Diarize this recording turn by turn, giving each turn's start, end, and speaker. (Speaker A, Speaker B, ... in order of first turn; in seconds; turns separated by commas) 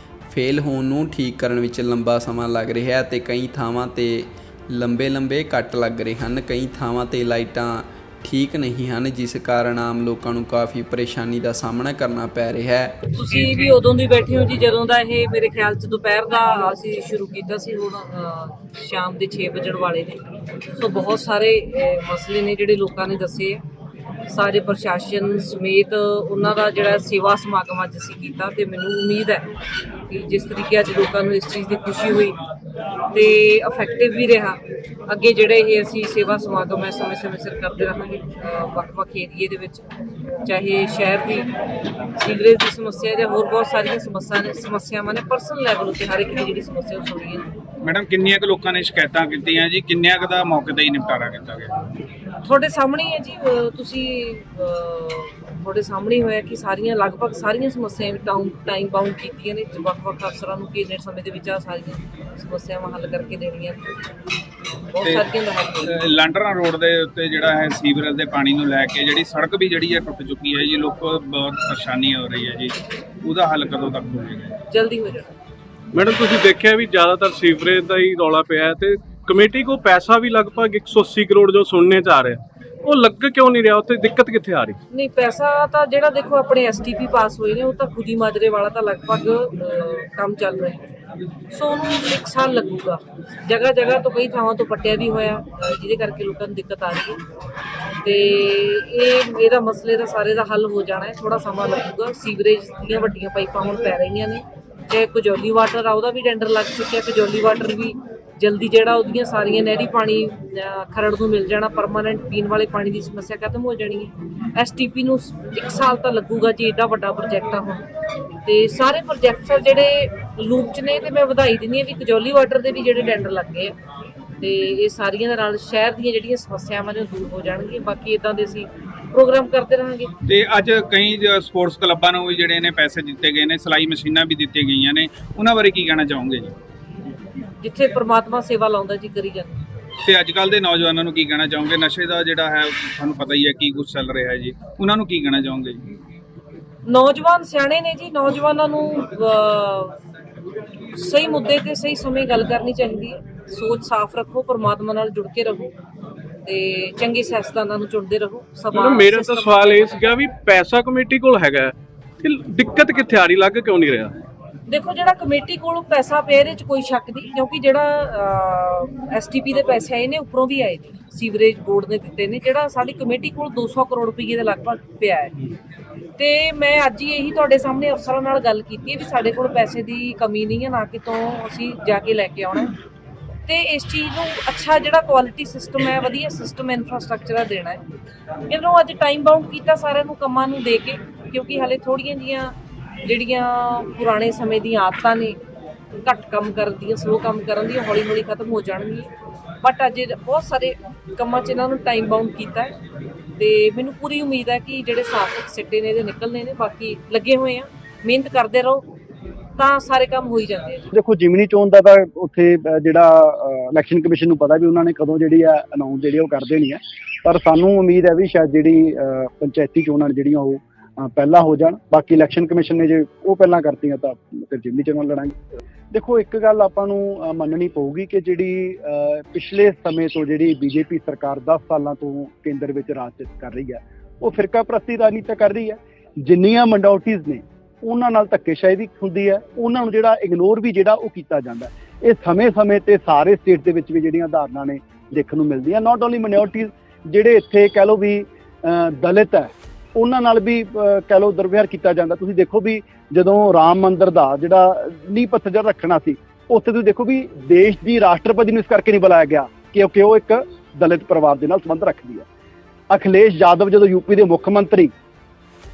Speaker A: 0.3-12.9, Speaker B: 13.1-20.2, Speaker C: 13.3-13.7, Speaker B: 20.8-23.6, Speaker B: 24.3-29.5, Speaker B: 30.1-32.4, Speaker B: 33.1-39.8, Speaker B: 40.5-41.5, Speaker B: 42.2-47.4, Speaker C: 47.8-51.7, Speaker B: 52.4-63.9, Speaker B: 64.9-66.0, Speaker C: 65.0-74.5, Speaker B: 74.7-75.3, Speaker D: 75.9-84.8, Speaker B: 84.9-90.8, Speaker B: 91.5-97.2, Speaker B: 98.0-117.8, Speaker B: 118.5-123.7, Speaker B: 124.4-130.1, Speaker C: 130.2-136.5, Speaker B: 137.6-139.6, Speaker C: 140.0-145.8, Speaker B: 146.8-149.9, Speaker B: 150.9-155.7, Speaker B: 156.4-160.0, Speaker D: 158.7-164.1, Speaker B: 164.7-175.3, Speaker B: 176.2-182.7, Speaker B: 183.5-187.8, Speaker B: 188.5-192.5, Speaker B: 193.0-195.4, Speaker B: 196.0-199.1, Speaker B: 199.6-202.7, Speaker B: 203.4-208.8, Speaker B: 209.6-210.9, Speaker E: 210.9-225.3, Speaker E: 225.9-262.2, Speaker E: 262.9-264.9